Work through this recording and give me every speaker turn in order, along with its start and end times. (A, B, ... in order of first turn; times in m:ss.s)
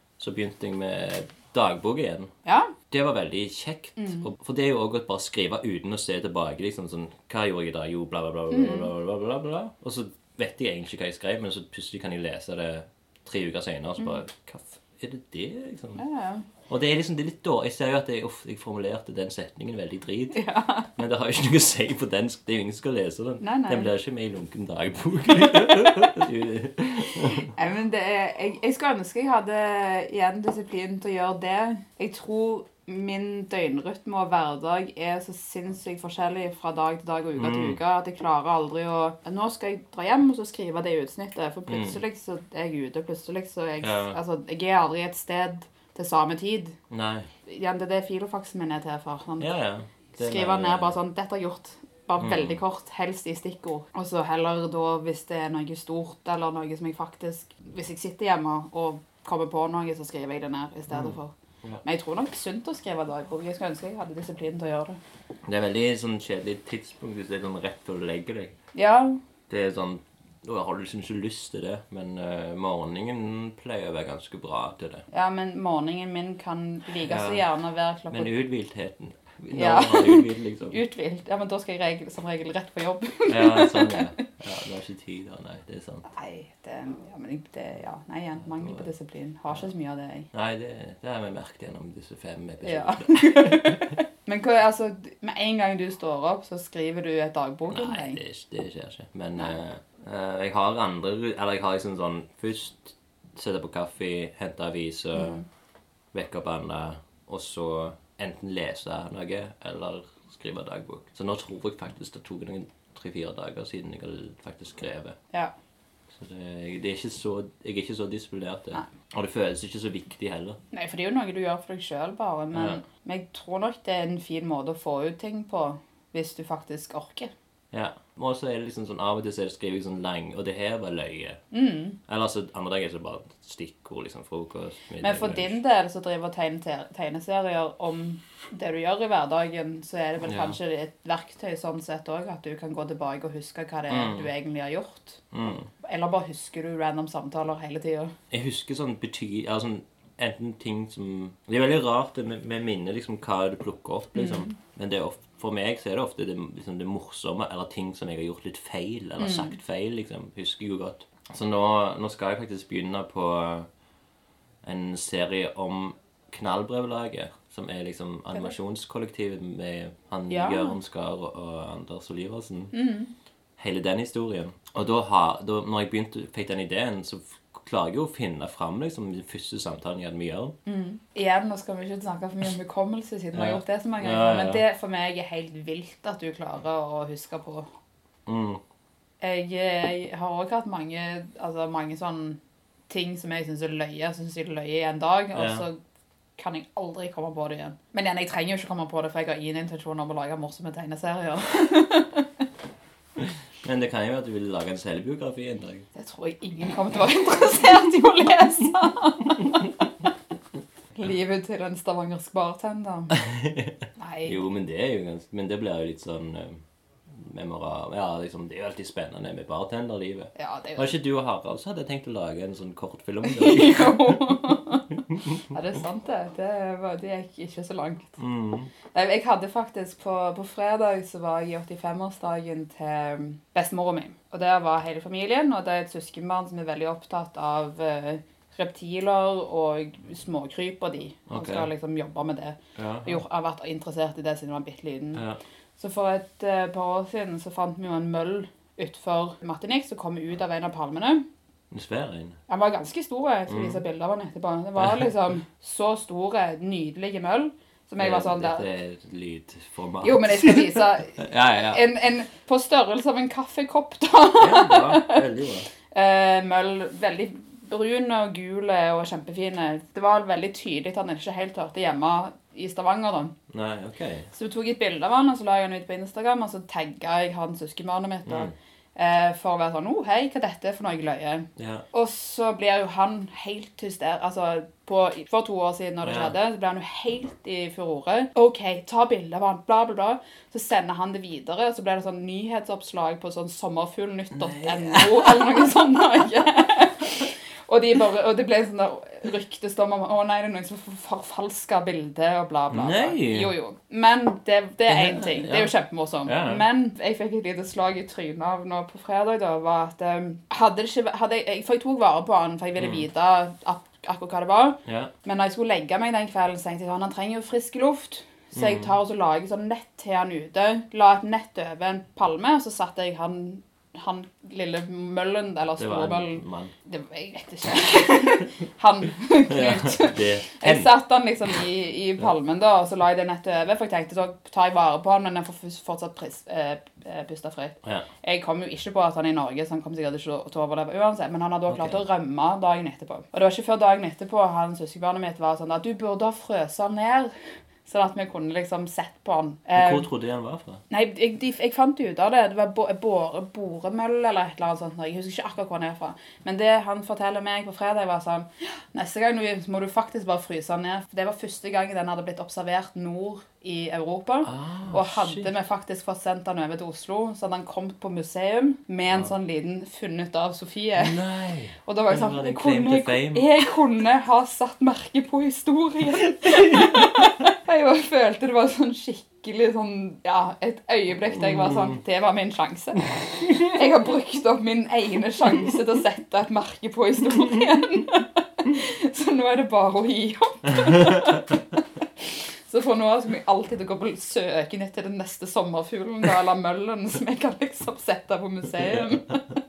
0:00.2-0:02.3 A
0:02.4-0:02.7 B
0:02.9-0:16.0 A
0:04.0-0:04.2 B
0:08.5-0:08.9 B
0:16.0-0:16.5 B
0:16.7-0:20.4 A
0:20.3-0:20.9 B
0:21.0-0:27.5 A
0:23.4-0:23.9 B
0:27.2-0:46.8 B
0:37.4-0:37.8 A
0:41.7-0:42.0 A
0:43.8-0:44.2 A
0:46.9-0:47.3 A
0:47.5-0:49.6 B
0:49.4-0:50.9 A
0:50.2-1:01.3 B
0:52.2-0:52.6 A
1:00.9-1:01.8 A
1:01.8-1:05.0 B
1:05.5-1:08.6 A
1:08.8-1:09.2 B
1:09.5-1:15.1 A
1:15.1-1:18.3 B
1:17.0-1:17.4 A
1:18.1-1:20.8 A
1:19.5-1:24.1 B
1:23.3-1:26.1 A
1:26.1-1:30.3 B
1:30.3-1:34.0 A
1:32.6-1:38.2 B
1:37.7-1:45.4 A
1:45.2-1:45.4 B
1:46.1-1:55.2 A
1:56.2-2:00.6 A
2:00.7-2:07.3 B
2:02.5-2:02.8 A
2:07.7-2:11.4 A
2:11.5-2:12.0 B
2:12.1-2:15.6 A
2:15.0-2:25.2 B
2:20.2-2:20.6 A
2:23.9-2:24.3 A
2:25.3-2:25.7 A
2:25.8-2:28.1 B
2:28.3-2:43.7 A
2:34.2-2:34.5 B
2:39.2-2:39.6 B
2:44.6-2:52.7 A
2:50.3-2:50.7 B
2:52.7-2:53.1 B
2:53.6-3:00.6 A
3:00.7-3:07.7 B
3:03.3-3:04.6 A
3:08.3-3:08.6 A
3:09.2-3:15.8 B
3:15.3-3:15.6 A
3:16.4-3:22.4 B
3:23.2-3:25.9 A
3:26.0-3:29.8 B
3:31.0-3:33.2 B
3:33.1-3:44.4 A
3:34.0-3:34.4 B
3:40.4-3:41.0 B
3:43.2-3:44.9 B
3:45.5-3:48.2 B
3:48.2-3:48.7 A
3:48.9-4:05.2 B
4:01.3-4:01.7 A
4:02.8-4:03.2 A
4:05.8-4:11.3 B
4:11.7-4:12.4 A
4:12.5-4:18.7 B
4:13.5-4:13.8 A
4:18.0-4:21.8 A
4:20.0-4:25.2 B
4:24.4-4:25.7 A
4:25.9-4:33.4 B
4:33.5-4:34.3 A
4:34.3-5:47.3 B
4:38.3-4:38.5 A
4:41.6-4:41.8 A
4:46.0-4:46.3 A
4:54.3-4:55.7 A
5:02.7-5:03.5 A
5:04.9-5:05.7 A
5:06.2-5:06.7 A
5:12.8-5:13.0 A
5:14.8-5:15.1 A
5:18.5-5:18.9 A
5:25.8-5:26.7 A
5:29.5-5:31.0 A
5:37.8-5:38.1 A
5:41.7-5:42.0 A
5:47.8-5:50.1 B
5:49.8-5:50.8 A
5:50.9-6:11.2 B
6:04.4-6:05.5 A
6:11.0-6:13.5 A
6:11.8-6:31.6 B
6:16.4-6:17.0 A
6:21.3-6:22.0 A
6:32.7-6:39.4 B